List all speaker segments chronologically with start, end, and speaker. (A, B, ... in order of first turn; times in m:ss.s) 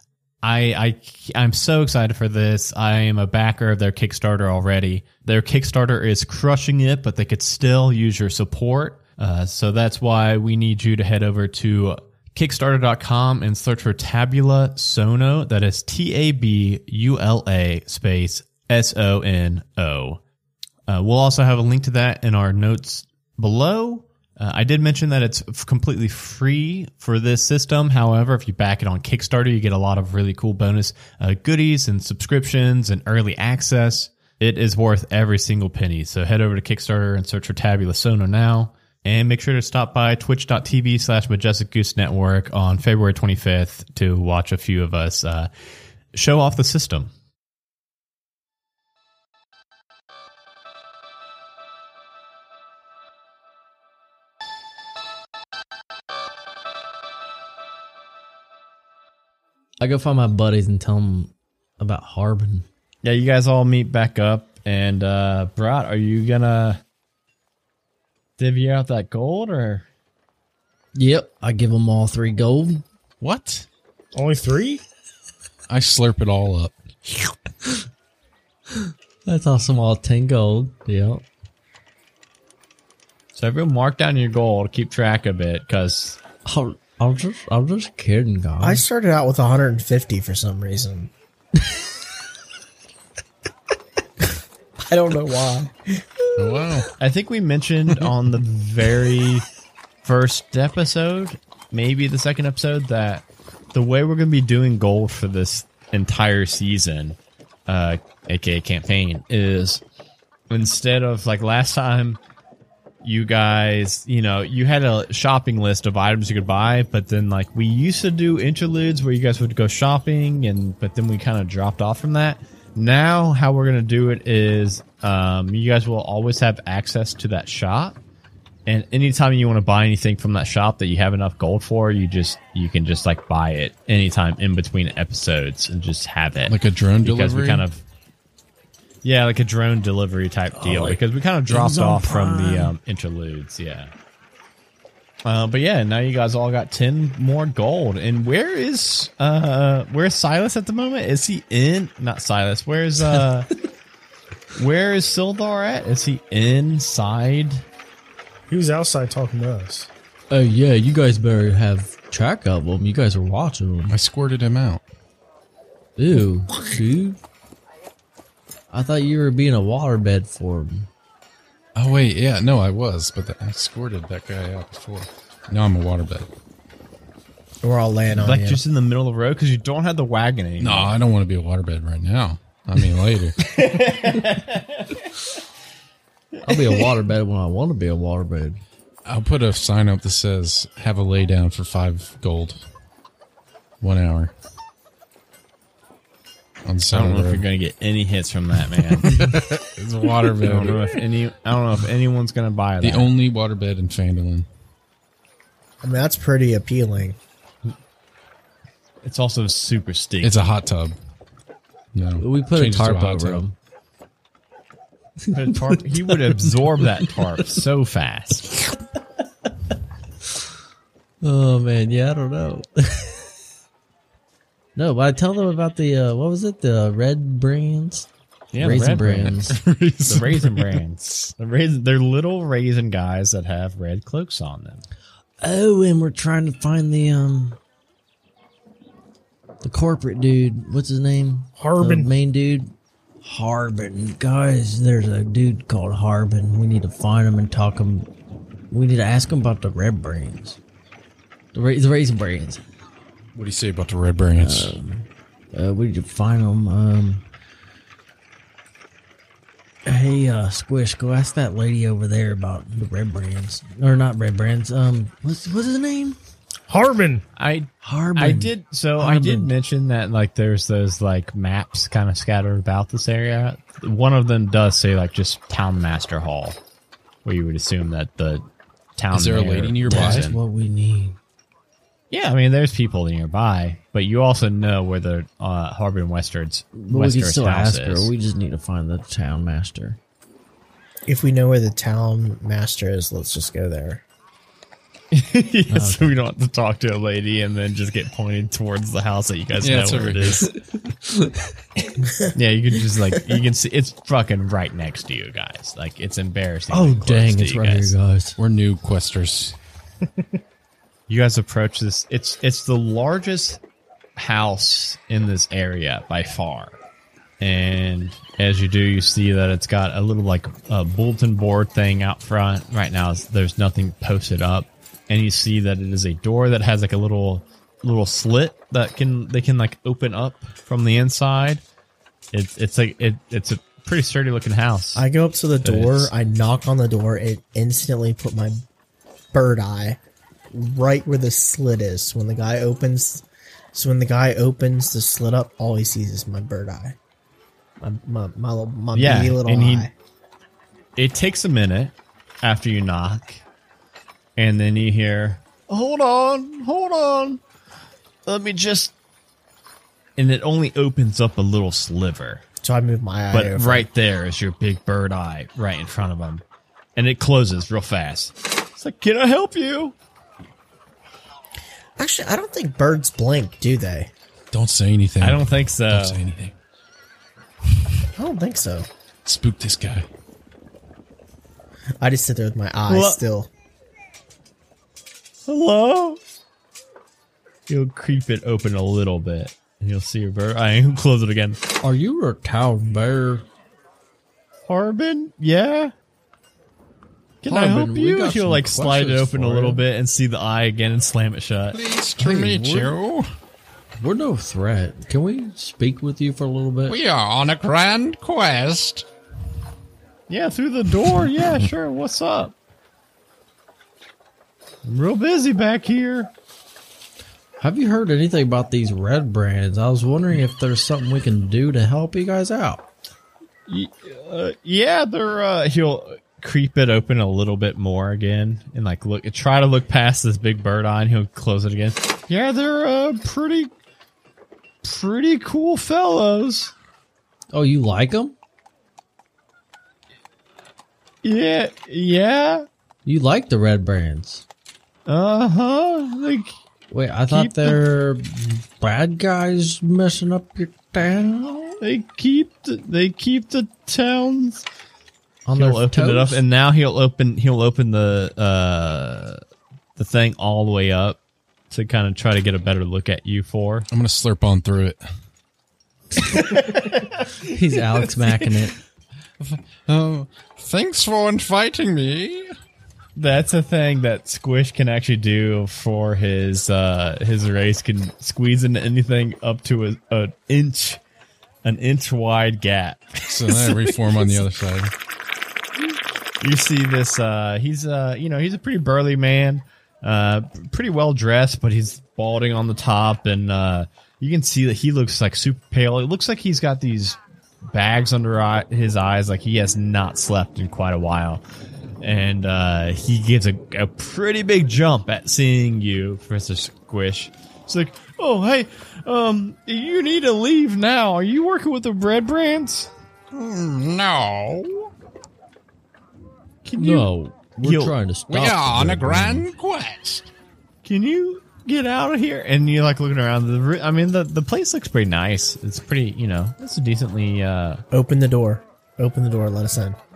0:00.4-0:20.2 A
0:20.9-0:45.5 A
0:46.1-0:47.1 A
0:59.8-1:02.7 B
1:03.0-1:06.8 A
1:08.4-1:09.9 A
1:11.0-1:12.8 B
1:13.2-1:13.7 C
1:14.1-1:14.8 D
1:15.7-1:17.3 C
1:19.3-1:21.2 B
1:23.4-1:26.2 A
1:26.4-1:28.8 B
1:28.6-1:31.1 E
1:34.9-1:36.0 E
1:36.4-1:36.9 C
1:37.0-1:39.4 A
1:40.0-1:49.8 A
1:50.5-1:52.2 A
1:53.0-2:08.0 A
2:08.7-2:17.8 A
2:16.5-2:17.7 C
2:19.0-2:23.9 A
2:20.6-2:22.8 B
2:25.2-2:33.5 A
2:34.6-2:37.6 A
2:38.5-2:39.9 D
2:40.3-2:44.0 B
2:43.9-2:44.8 C
2:46.0-2:47.2 B
2:48.7-2:50.9 B
2:51.8-2:56.3 C
2:57.6-2:58.6 E
2:58.2-3:01.0 A
3:00.6-3:03.4 C
3:03.4-3:05.1 A
3:06.4-3:06.9 A
3:06.5-3:08.6 B
3:09.1-3:12.6 C
3:13.8-3:14.3 C
3:16.6-3:17.4 C
3:16.9-3:19.2 A
3:18.8-3:21.0 C
3:20.4-3:23.1 A
3:22.8-3:24.5 C
3:25.8-3:27.2 E
3:29.0-3:30.4 A
3:30.2-3:31.0 C
3:31.9-3:33.4 C
3:32.2-3:33.6 B
3:35.3-3:37.1 B
3:35.3-3:38.5 A
3:41.2-3:43.3 B
3:44.8-3:48.1 B
3:48.5-3:54.8 A
3:48.6-3:49.6 B
3:49.3-3:50.8 C
3:55.4-3:57.6 B
3:59.6-4:08.1 B
4:01.6-4:02.1 D
4:08.7-4:10.6 B
4:11.5-4:12.6 B
4:13.4-4:14.8 C
4:14.4-4:17.2 B
4:19.9-4:26.2 B
4:26.7-4:27.2 D
4:27.4-4:36.6 A
4:27.8-4:29.5 B
4:37.2-4:38.5 A
4:39.0-4:40.4 A
4:39.1-4:40.3 C
4:39.9-4:41.2 B
4:42.1-4:48.1 A
4:46.7-4:50.0 B
4:51.1-4:54.0 E
4:55.1-5:00.5 A
4:55.7-4:56.1 B
4:59.6-5:00.5 C
5:01.0-5:01.5 B
5:02.3-5:07.9 A
5:06.7-5:08.4 B
5:08.4-5:09.6 C
5:11.1-5:13.6 A
5:14.2-5:16.8 A
5:17.4-5:31.6 A
5:32.3-5:35.0 A
5:35.0-5:38.6 E
5:35.6-5:36.1 A
5:39.3-5:40.0 E
5:40.5-5:47.0 E
5:47.8-5:49.9 E
5:48.9-5:49.9 A
5:51.0-5:53.4 A
5:54.4-5:57.4 A
5:58.3-5:58.9 A
6:00.2-6:02.4 A
6:02.6-6:03.9 E
6:03.3-6:06.4 A
6:07.0-6:10.0 A
6:12.0-6:14.1 E
6:14.5-6:16.6 C
6:15.2-6:16.2 A
6:18.2-6:18.9 E
6:19.2-6:20.1 C
6:22.0-6:23.5 E
6:22.9-6:23.2 A
6:25.5-6:26.2 A
6:27.7-6:31.6 A
6:31.8-6:33.4 B
6:34.7-6:35.9 A
6:37.4-6:41.8 A
6:37.5-6:39.8 B
6:41.7-6:43.3 C
6:42.2-6:43.0 B
6:44.0-6:47.0 B
6:46.9-6:49.1 C
6:50.3-6:52.5 A
6:54.8-6:56.3 A
6:57.6-7:02.8 B
7:03.7-7:13.7 A
7:14.8-7:16.7 A
7:17.5-7:18.4 B
7:21.2-7:22.7 A
7:23.0-7:24.4 B
7:25.1-7:26.6 A
7:26.9-7:31.8 B
7:27.3-7:27.8 A
7:31.8-7:34.7 A
7:35.4-7:36.4 B
7:35.5-7:39.4 A
7:40.0-7:41.2 A
7:41.7-7:43.9 A
7:43.9-7:45.0 C
7:46.2-7:48.5 A
7:47.5-7:48.8 B
7:49.4-7:52.5 C
7:53.2-8:01.0 A
8:01.6-8:04.4 A
8:03.3-8:04.9 C
8:06.4-8:21.4 A
8:22.0-8:32.9 A
8:33.3-8:34.9 C
8:36.6-8:37.1 A
8:36.8-8:39.5 B
8:37.6-8:38.0 A
8:38.3-8:40.3 C
8:40.8-8:47.8 A
8:47.9-8:50.0 E